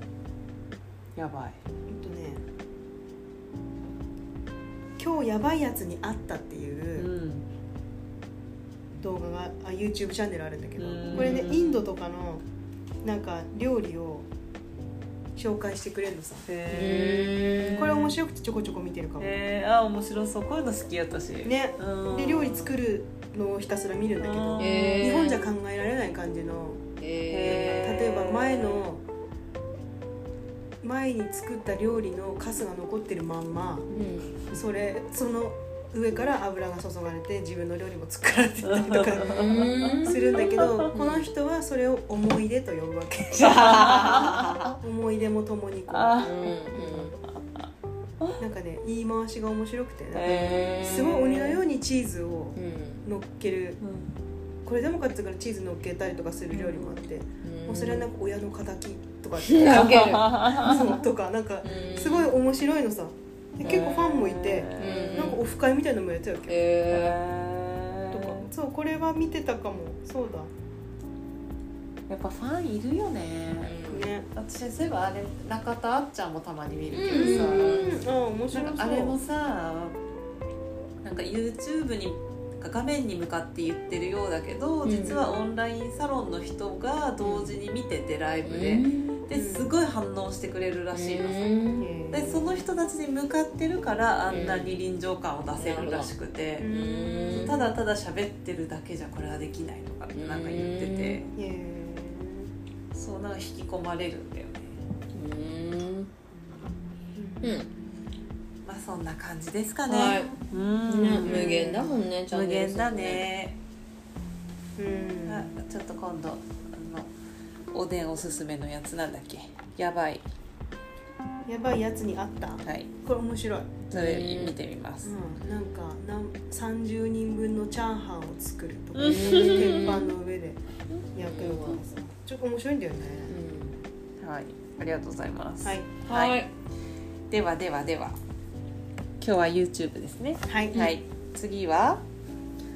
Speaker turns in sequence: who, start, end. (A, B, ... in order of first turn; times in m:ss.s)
0:01.2-0:01.6 A
0:01.9-0:02.4 B
0:05.0-0:07.1 B
0:07.0-0:07.4 A
0:09.0-0:12.4 B
0:10.8-0:11.8 A
0:11.1-0:11.5 C
0:13.0-0:14.3 B
0:15.4-0:16.5 B
0:16.4-0:18.2 A
0:16.7-0:17.9 C
0:17.8-0:19.3 B
0:19.2-0:22.7 A
0:21.4-0:26.8 B
0:24.2-0:25.3 A
0:24.6-0:25.5 C
0:27.0-0:28.0 C
0:27.3-0:28.9 A
0:27.4-0:29.0 B
0:30.8-0:33.9 B
0:33.9-0:34.4 C
0:34.5-0:46.3 B
0:38.6-0:40.9 A
0:39.2-0:40.2 C
0:40.9-0:41.3 C
0:43.4-0:44.7 A
0:45.9-0:47.6 A
0:46.2-0:47.2 C
0:48.4-0:53.8 B
0:50.1-0:51.6 A
0:50.2-0:51.3 C
0:52.5-0:53.0 C
0:53.8-0:54.2 A
0:54.6-1:06.6 B
0:56.5-0:57.0 A
0:57.4-0:58.1 C
0:59.4-1:00.8 C
0:59.7-1:00.8 A
1:01.6-1:02.3 C
1:03.6-1:05.3 A
1:04.7-1:05.4 C
1:06.5-1:07.2 C
1:06.9-1:08.4 A
1:08.1-1:10.5 B
1:12.1-1:13.8 A
1:13.6-1:14.1 C
1:13.9-1:14.3 B
1:14.3-1:18.0 A
1:16.9-1:18.0 C
1:17.1-1:19.2 B
1:18.5-1:20.0 A
1:21.0-1:31.5 A
1:24.8-1:25.2 C
1:25.0-1:25.5 B
1:27.2-1:27.6 C
1:28.4-1:29.2 C
1:29.3-1:29.8 B
1:30.9-1:31.9 C
1:31.8-1:32.6 B
1:32.1-1:36.7 A
1:34.3-1:34.8 C
1:35.5-1:36.1 C
1:36.6-1:37.7 B
1:36.6-1:37.5 C
1:37.3-1:41.3 A
1:40.1-1:41.2 C
1:41.4-1:42.5 B
1:42.9-1:44.8 A
1:45.1-1:46.1 C
1:47.1-1:47.6 B
1:47.4-1:47.7 C
1:48.6-1:53.6 A
1:49.8-1:53.2 C
1:51.2-1:52.0 B
1:54.8-1:55.5 B
1:55.2-1:57.1 A
1:57.7-2:00.2 A
2:01.4-2:03.8 B
2:02.6-2:02.9 A
2:03.9-2:05.1 A
2:03.9-2:04.6 C
2:05.0-2:10.6 B
2:08.9-2:09.9 A
2:09.0-2:10.1 C
2:11.1-2:13.4 B
2:11.2-2:11.8 C
2:13.3-2:13.8 C
2:14.2-2:16.5 A
2:15.6-2:15.9 B
2:16.0-2:16.5 C
2:17.3-2:18.2 A
2:19.2-2:22.0 A
2:20.5-2:20.9 B